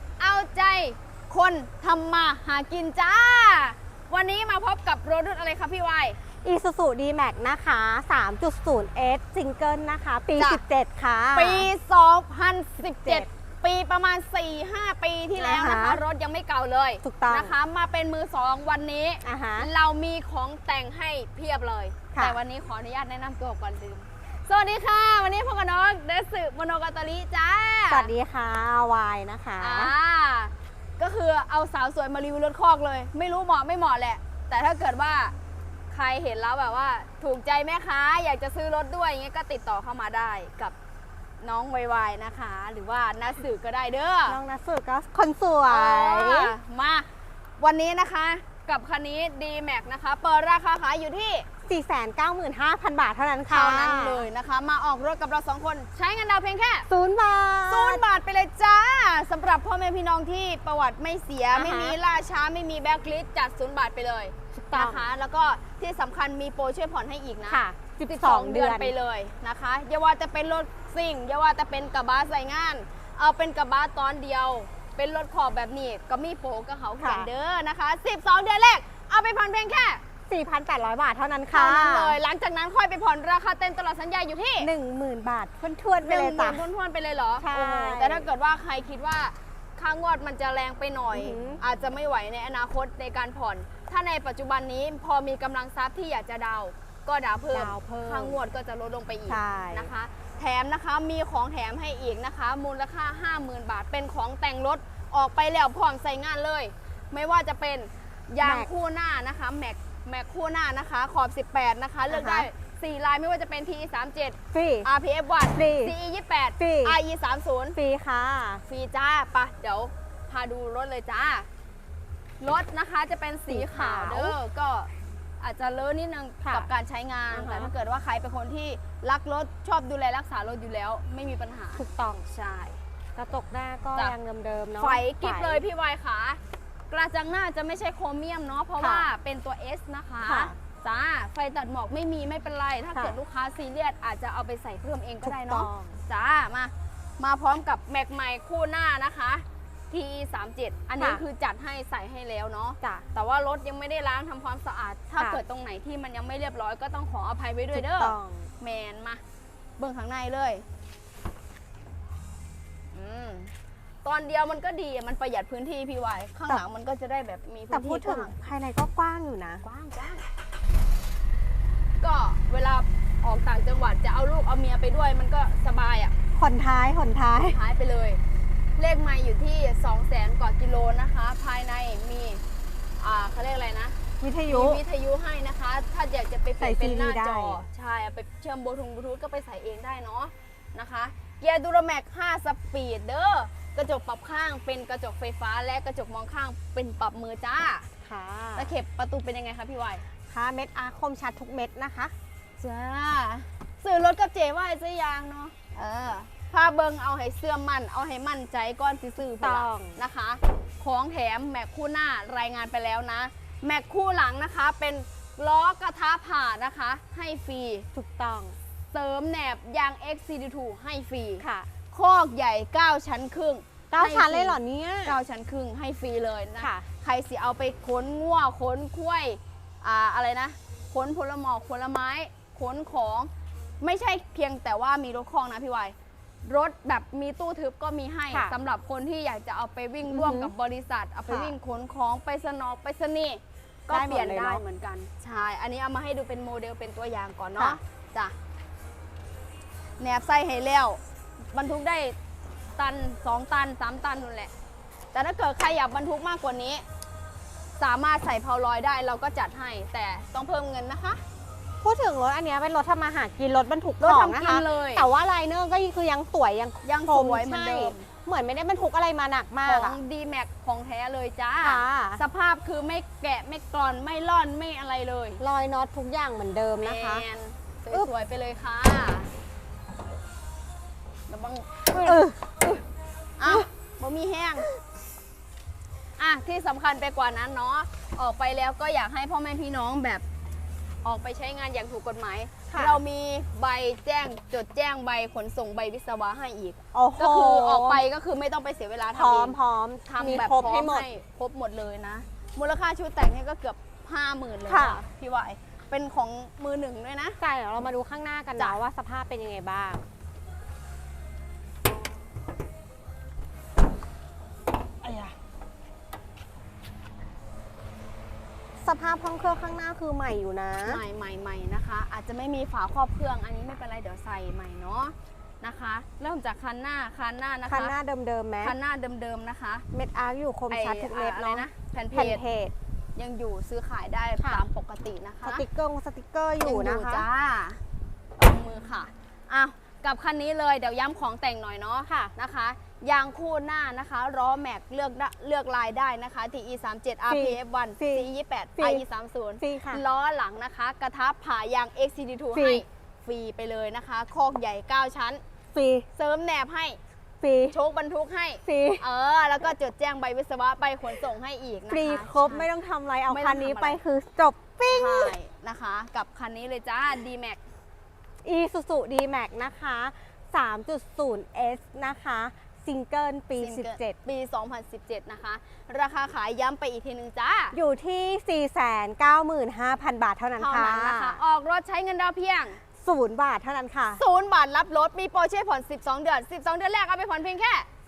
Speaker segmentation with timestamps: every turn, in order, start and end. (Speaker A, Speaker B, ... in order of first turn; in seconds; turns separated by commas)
Speaker A: 0.2-6.2, Speaker B: 6.4-11.7, Speaker A: 10.3-10.6, Speaker A: 11.3-28.1, Speaker B: 13.0-13.3, Speaker B: 15.3-16.0, Speaker B: 17.0-17.5, Speaker B: 19.2-19.7, Speaker B: 22.1-22.4, Speaker B: 27.9-29.9, Speaker A: 29.6-35.3, Speaker A: 35.9-40.7, Speaker A: 41.4-44.4, Speaker B: 44.3-46.5, Speaker A: 45.7-47.1, Speaker A: 47.6-51.5, Speaker B: 51.7-54.2, Speaker A: 53.5-56.9, Speaker B: 56.9-58.0, Speaker A: 57.7-80.0, Speaker B: 61.5-62.0, Speaker B: 64.5-65.0, Speaker B: 67.5-68.9, Speaker B: 77.0-77.3, Speaker B: 80.3-82.2, Speaker A: 81.5-84.7, Speaker B: 84.6-86.6, Speaker A: 86.0-117.8, Speaker B: 87.4-88.3, Speaker B: 91.1-91.6, Speaker B: 97.5-98.4, Speaker B: 99.3-99.9, Speaker B: 108.4-108.7, Speaker B: 112.1-112.5, Speaker B: 114.5-114.9, Speaker B: 115.5-115.9, Speaker B: 116.6-117.0, Speaker B: 117.8-118.6, Speaker A: 118.7-121.5, Speaker A: 122.4-132.8, Speaker B: 123.5-124.4, Speaker B: 126.4-126.7, Speaker B: 127.3-127.7, Speaker B: 131.8-132.2, Speaker B: 133.2-135.6, Speaker A: 134.8-159.2, Speaker B: 138.8-139.1, Speaker B: 140.2-140.5, Speaker B: 145.2-146.0, Speaker B: 157.7-158.5, Speaker A: 159.8-160.6, Speaker A: 162.9-163.5, Speaker A: 164.0-168.3, Speaker B: 167.7-169.6, Speaker A: 169.6-170.2, Speaker A: 172.0-176.1, Speaker B: 176.3-177.6, Speaker A: 177.4-178.2, Speaker A: 178.8-182.4, Speaker A: 183.0-197.9, Speaker B: 184.2-184.8, Speaker B: 186.6-187.7, Speaker B: 198.0-198.7, Speaker A: 198.6-200.0, Speaker B: 200.3-202.1, Speaker A: 202.6-217.9, Speaker B: 209.2-210.0, Speaker B: 217.9-218.6, Speaker A: 218.9-233.3, Speaker B: 221.4-221.7, Speaker B: 223.9-225.2, Speaker B: 226.6-226.8, Speaker A: 233.8-248.3, Speaker B: 240.1-240.5, Speaker B: 241.3-241.5, Speaker B: 243.9-244.6, Speaker A: 250.0-251.0, Speaker A: 251.5-252.2, Speaker A: 252.8-254.5, Speaker A: 255.1-256.8, Speaker A: 257.8-261.2, Speaker B: 261.8-270.0, Speaker A: 264.0-265.1, Speaker A: 266.8-268.1, Speaker A: 269.6-275.4, Speaker B: 271.6-272.2, Speaker B: 275.4-277.2, Speaker A: 276.8-279.3, Speaker A: 281.3-282.2, Speaker B: 281.9-282.8, Speaker A: 283.4-284.7, Speaker A: 286.2-290.2, Speaker A: 291.0-307.4, Speaker B: 292.7-293.0, Speaker B: 296.9-298.0, Speaker B: 299.1-301.1, Speaker B: 304.7-305.0, Speaker B: 307.4-310.0, Speaker A: 315.0-315.3, Speaker B: 318.8-321.0, Speaker A: 320.8-327.9, Speaker B: 327.6-328.7, Speaker A: 328.6-329.8, Speaker B: 329.9-332.7, Speaker A: 330.7-332.4, Speaker A: 333.1-335.6, Speaker B: 334.4-334.6, Speaker B: 335.4-337.2, Speaker A: 336.6-337.8, Speaker A: 338.4-355.4, Speaker B: 342.1-342.3, Speaker B: 347.3-349.0, Speaker B: 349.6-350.0, Speaker B: 352.5-352.8, Speaker B: 355.7-356.1, Speaker A: 356.1-357.0, Speaker B: 357.4-357.8, Speaker A: 357.7-362.7, Speaker B: 358.6-359.0, Speaker B: 361.9-365.3, Speaker A: 363.3-364.0, Speaker A: 364.9-367.6, Speaker B: 368.4-374.2, Speaker A: 373.6-377.8, Speaker B: 377.7-381.4, Speaker A: 380.6-382.8, Speaker B: 383.0-384.2, Speaker A: 384.2-387.9